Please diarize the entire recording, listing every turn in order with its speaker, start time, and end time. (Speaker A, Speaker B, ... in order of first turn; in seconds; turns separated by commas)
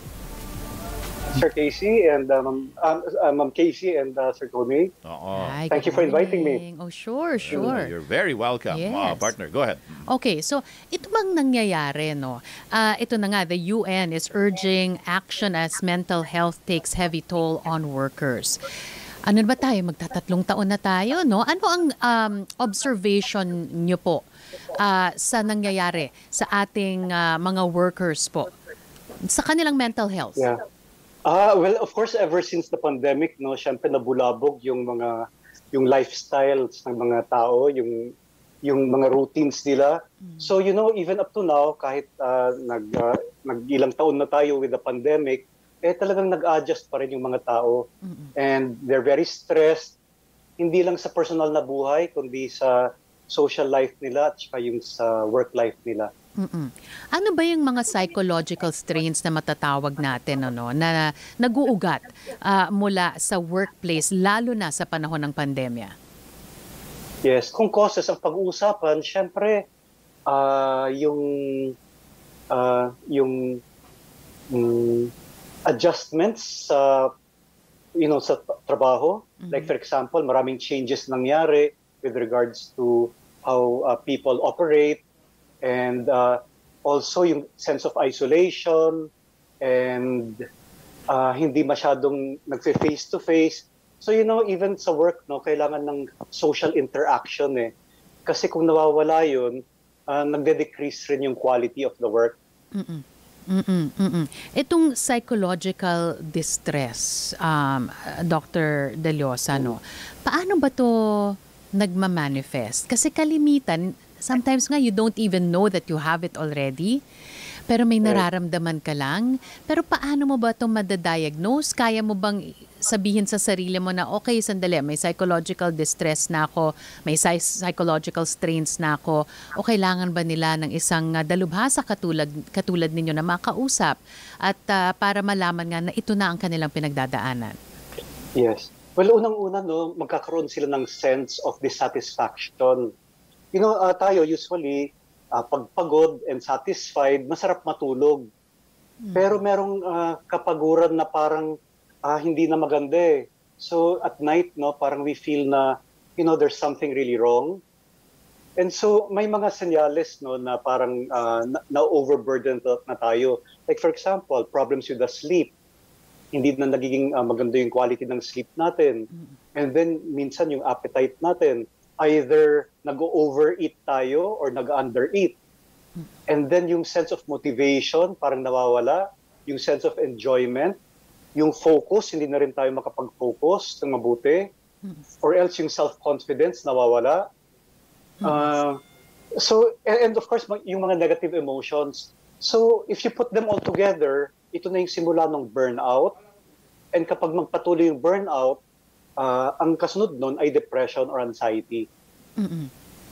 Speaker A: 1.3-4.9, Speaker B: 5.0-5.6, Speaker C: 5.3-7.9, Speaker A: 5.7-6.6, Speaker B: 7.4-10.1, Speaker C: 8.7-9.3, Speaker C: 10.1-18.6, Speaker C: 19.3-28.5, Speaker C: 29.2-30.5, Speaker A: 31.3-38.1, Speaker A: 38.6-50.0, Speaker C: 48.0-48.3, Speaker A: 50.6-56.1, Speaker C: 56.4-65.9, Speaker A: 67.2-69.6, Speaker A: 70.3-71.8, Speaker A: 72.5-73.6, Speaker A: 74.5-75.1, Speaker A: 75.7-77.1, Speaker A: 78.0-85.0, Speaker C: 79.4-79.7, Speaker A: 85.6-89.1, Speaker A: 89.6-90.5, Speaker A: 91.1-97.7, Speaker A: 98.3-102.4, Speaker C: 102.8-117.0, Speaker C: 117.7-137.6, Speaker A: 138.4-142.9, Speaker A: 143.5-148.3, Speaker C: 149.0-149.4, Speaker A: 149.2-151.5, Speaker A: 152.1-157.6, Speaker A: 158.6-165.5, Speaker A: 166.3-175.4, Speaker A: 176.3-180.8, Speaker A: 181.4-184.5, Speaker A: 185.2-187.2, Speaker C: 188.2-188.5, Speaker A: 188.2-188.8, Speaker A: 189.4-196.2, Speaker A: 196.9-198.6, Speaker A: 199.2-201.9, Speaker C: 202.4-202.7